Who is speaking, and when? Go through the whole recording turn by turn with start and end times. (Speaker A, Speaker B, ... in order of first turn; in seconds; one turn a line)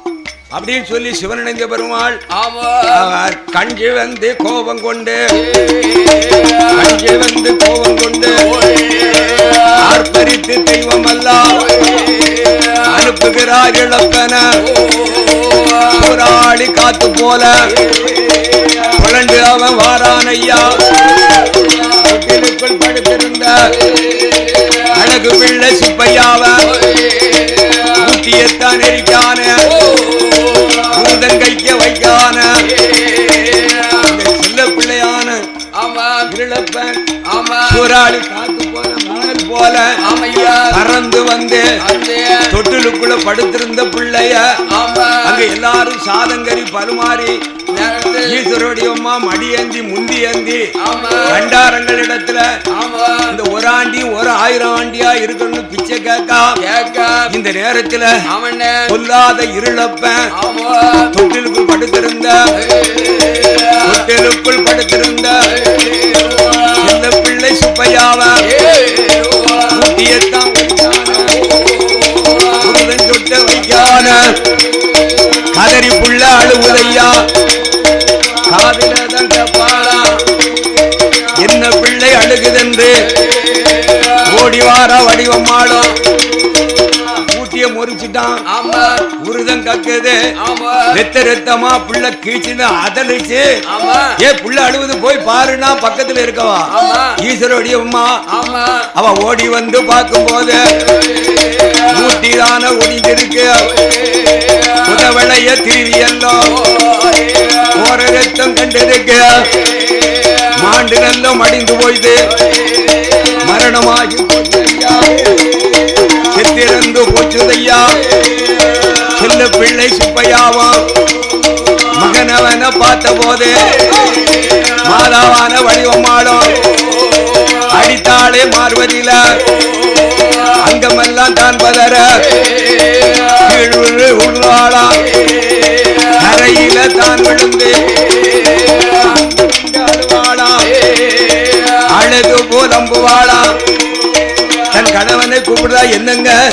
Speaker A: 0.5-2.2
Speaker B: 2.3-3.1
Speaker A: 2.9-5.2
Speaker B: 5.3-7.0
Speaker A: 6.7-8.5
Speaker B: 8.2-10.0
Speaker A: 9.8-11.7
Speaker B: 11.5-13.1
Speaker A: 12.9-14.5
Speaker B: 14.6-16.1
Speaker A: 15.9-17.6
Speaker B: 17.7-18.9
Speaker A: 18.9-21.4
Speaker B: 20.8-22.0
Speaker A: 22.0-23.7
Speaker B: 23.7-25.1
Speaker A: 24.9-26.7
Speaker B: 26.6-28.1
Speaker A: 28.0-29.7
Speaker B: 29.6-31.1
Speaker A: 30.9-32.5
Speaker B: 32.6-34.1
Speaker A: 34.0-35.4
Speaker B: 35.7-36.3
Speaker A: 36.3-37.0
Speaker B: 37.3-37.9
Speaker A: 37.6-39.9
Speaker B: 40.0-40.8
Speaker A: 40.7-41.7
Speaker B: 41.8-42.5
Speaker A: 42.5-44.6
Speaker B: 44.7-45.5
Speaker A: 45.2-47.4
Speaker B: 47.7-48.5
Speaker A: 48.2-50.6
Speaker B: 50.8-51.5
Speaker A: 51.2-52.5
Speaker B: 52.7-53.4
Speaker A: 53.3-56.6
Speaker B: 56.6-57.3
Speaker A: 57.3-58.1
Speaker B: 58.3-58.9
Speaker A: 58.9-60.2
Speaker B: 60.3-61.1
Speaker A: 61.1-62.4
Speaker B: 62.5-64.0
Speaker A: 63.8-65.4
Speaker B: 65.5-67.0
Speaker A: 66.8-68.5
Speaker B: 68.4-69.9
Speaker A: 69.7-71.5
Speaker B: 71.1-72.8
Speaker A: 72.6-74.4
Speaker A: 75.5-77.2
Speaker A: 78.4-80.2
Speaker B: 79.9-80.1
Speaker A: 81.3-83.0
Speaker B: 83.0-84.4
Speaker A: 84.2-86.0
Speaker A: 87.2-88.4
Speaker B: 88.5-89.0
Speaker A: 89.1-90.2
Speaker B: 90.4-91.0
Speaker A: 90.9-93.4
Speaker B: 93.7-94.2
Speaker A: 94.2-98.2
Speaker B: 96.7-97.2
Speaker B: 98.3-98.9
Speaker A: 98.9-100.7
Speaker B: 100.7-102.2
Speaker A: 101.9-103.7
Speaker B: 103.7-105.1
Speaker A: 104.8-106.5
Speaker B: 106.4-107.8
Speaker A: 107.8-109.5
Speaker B: 109.5-110.7
Speaker A: 110.5-112.2
Speaker B: 112.3-113.4
Speaker A: 113.4-115.4
Speaker A: 116.2-118.0
Speaker A: 119.1-120.8
Speaker A: 121.9-124.1
Speaker A: 124.8-126.6
Speaker B: 126.7-127.8
Speaker A: 127.7-129.4
Speaker B: 129.5-130.6
Speaker A: 130.6-132.2
Speaker B: 132.2-133.6
Speaker A: 133.4-135.0
Speaker B: 135.1-136.2
Speaker A: 136.2-137.9
Speaker B: 137.8-139.2
Speaker A: 138.9-140.7
Speaker B: 140.6-142.0
Speaker A: 141.9-143.6
Speaker B: 144.3-144.6
Speaker A: 144.7-146.4